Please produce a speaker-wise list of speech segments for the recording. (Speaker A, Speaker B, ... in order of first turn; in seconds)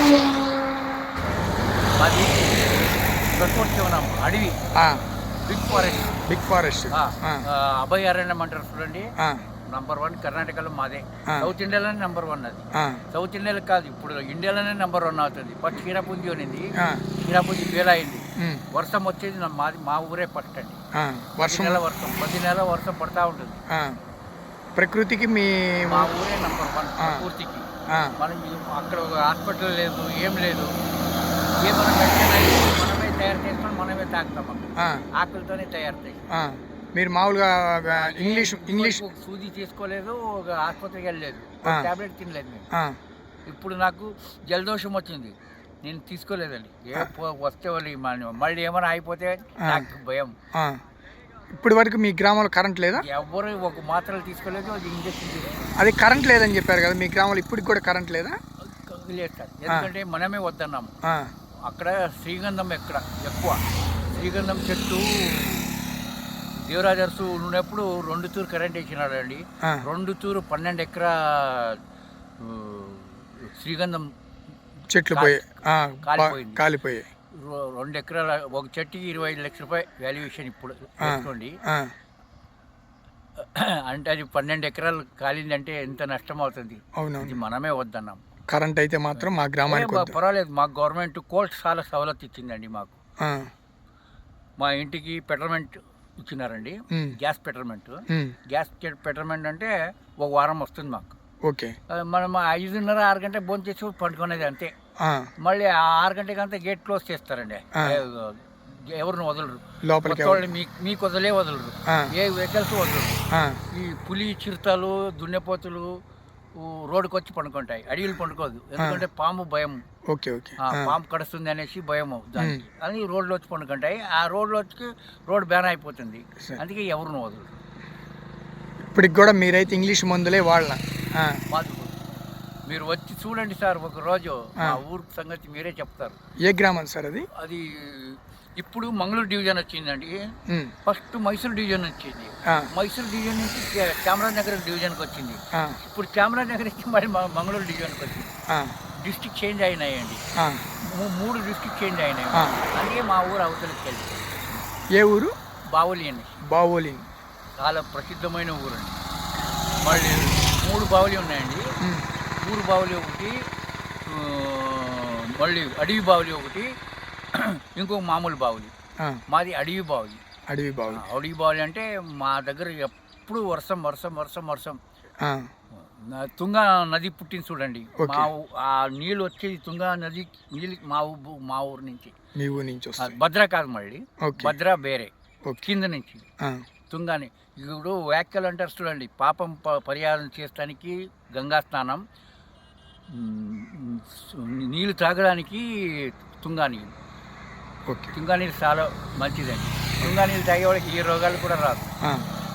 Speaker A: 2.0-4.6, 5.5-6.2, 6.9-9.1, 9.7-20.8, 21.4-23.6, 25.9-30.7, 31.6-36.2, 37.9-42.7, 43.5-50.3, 53.0-55.7, 58.6-60.9, 61.7-65.8, 66.7-71.8, 72.4-74.1, 75.1-75.5, 76.0-76.6, 77.3-81.6, 83.4-88.2, 89.2-93.0, 94.6-101.2, 101.9-104.7, 105.4-116.0, 116.6-119.8, 120.6-127.6, 131.5-132.0, 132.7-136.2, 137.3-140.2, 140.8-148.3, 149.0-150.2, 150.8-154.6, 155.7-156.4, 157.6-159.0, 159.8-161.7, 162.4-163.4, 164.1-166.7, 167.3-168.7, 169.3-170.2, 170.9-174.8, 175.8-182.2, 183.0-186.3, 186.9-192.0, 193.1-196.9, 198.2-201.9
Speaker B: 6.3-7.4, 9.2-9.4, 12.7-13.0, 16.8-17.1, 18.4-18.6, 20.9-21.8, 23.7-24.0, 24.8-26.1, 27.0-27.2, 27.9-28.1, 34.8-35.0, 36.3-39.0, 41.6-41.9, 42.7-43.0, 49.6-49.9, 50.5-50.8, 51.5-53.0, 55.8-58.4, 61.0-61.3, 74.9-77.1, 81.0-81.9, 87.0-87.4, 88.5-90.2, 93.2-93.5, 96.9-97.2, 98.1-98.4, 101.5-101.8, 105.0-105.3, 107.8-108.0, 109.8-110.5, 113.3-113.6, 118.8-119.0, 120.1-121.0, 128.9-131.4, 136.4-137.3, 140.5-140.7, 148.5-148.8, 150.4-150.7, 152.3-152.6, 154.9-155.3, 156.5-157.1, 161.8-162.1, 170.5-171.0, 175.2-175.5, 178.0-178.3, 182.4-183.2, 184.2-184.6, 197.9-198.1